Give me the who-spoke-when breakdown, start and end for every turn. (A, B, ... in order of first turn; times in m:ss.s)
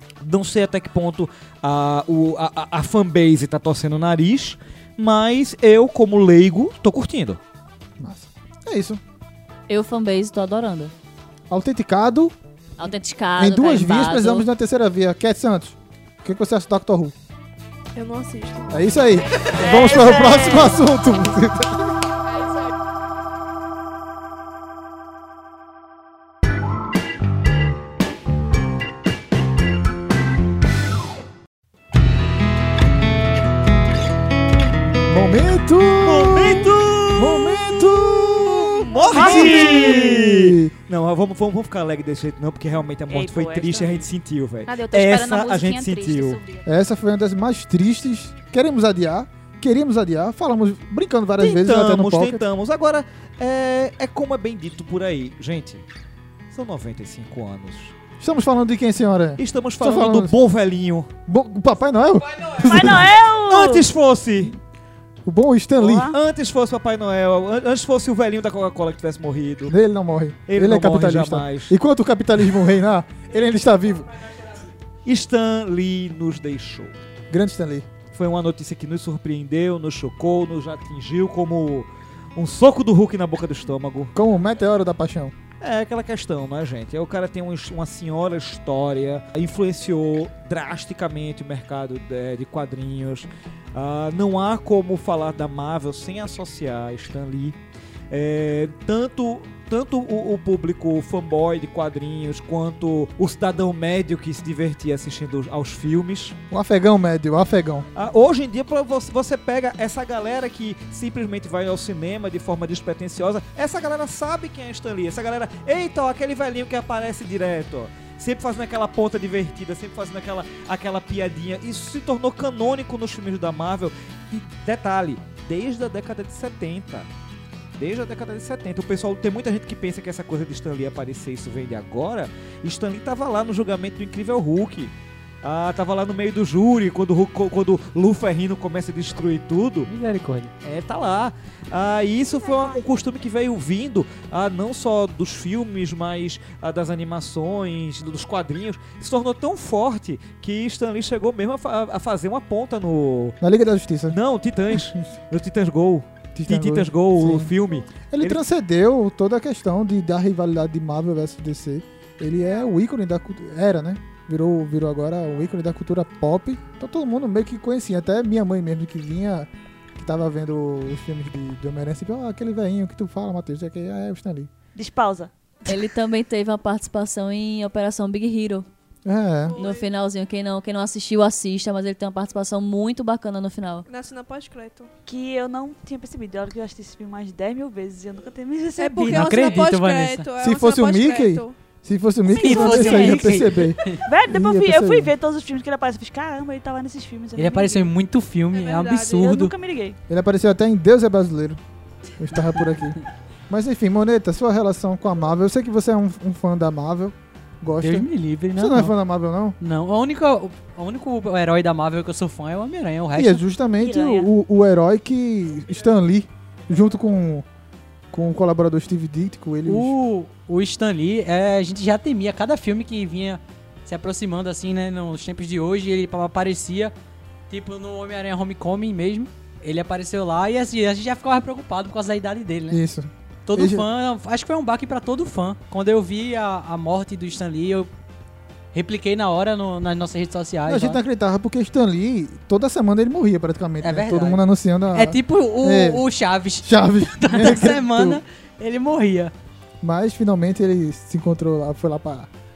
0:00.2-0:07.4 A
0:08.0-0:09.0 B
0:09.7-0:10.9 C
0:11.5-0:12.3 B
0:12.8-0:14.5 C
0:13.4-0:17.1 B
0:17.9-0:19.5 D
0:18.7-0:21.9 B
0:19.5-0:20.8 E
0:35.0-0:40.7 B
0:36.0-0:46.4 A
0:39.1-0:40.0 E
0:43.1-0:44.0 E
0:44.6-0:46.6 F
0:46.6-0:52.4 B
0:51.4-0:55.8 A
0:56.5-0:57.9 A
0:58.2-1:00.3 B
0:59.4-1:01.1 A
1:01.3-1:03.1 B
1:02.6-1:03.8 E
1:02.7-1:04.6 A
1:05.2-1:06.1 B
1:05.8-1:06.2 E
1:06.0-1:09.7 A
1:09.7-1:14.1 B
1:10.5-1:11.8 A
1:15.0-1:16.9 A
1:17.3-1:17.9 B
1:18.1-1:24.1 A
1:24.1-1:25.3 B
1:25.6-1:37.6 A
1:38.1-1:46.4 A
1:46.5-1:47.9 B
1:47.9-2:07.1 A
2:07.8-2:19.9 A
2:19.8-2:20.5 G
2:20.6-2:33.4 A
2:33.4-2:34.2 B
2:34.1-2:38.4 A
2:36.3-2:37.5 B
2:38.1-2:54.5 B
2:54.8-2:55.3 E
2:55.6-2:58.7 C
2:59.0-2:59.6 B
2:59.5-2:59.9 D
2:59.6-3:03.8 C
3:03.9-3:04.9 D
3:05.0-3:09.7 E
3:08.8-3:11.5 D
3:09.0-3:10.3 G
3:10.4-3:15.1 B
3:12.3-3:14.0 G
3:12.3-3:13.4 E
3:14.0-3:17.9 E
3:17.4-3:19.5 G
3:18.5-3:19.3 D
3:19.2-3:20.0 E
3:20.1-3:21.6 B
3:22.2-3:23.0 B
3:23.5-3:29.6 B
3:27.8-3:28.9 G
3:29.6-3:33.4 G
3:33.1-3:37.4 B
3:33.8-3:34.3 E
3:38.1-3:40.0 B
3:39.7-3:46.9 G
3:47.5-3:52.8 G
3:52.7-3:53.9 B
3:53.5-3:57.9 G
3:58.7-4:01.0 G
4:00.7-4:06.0 B
4:03.8-4:04.4 G
4:04.9-4:09.3 G
4:06.6-4:08.2 B
4:09.8-4:12.3 B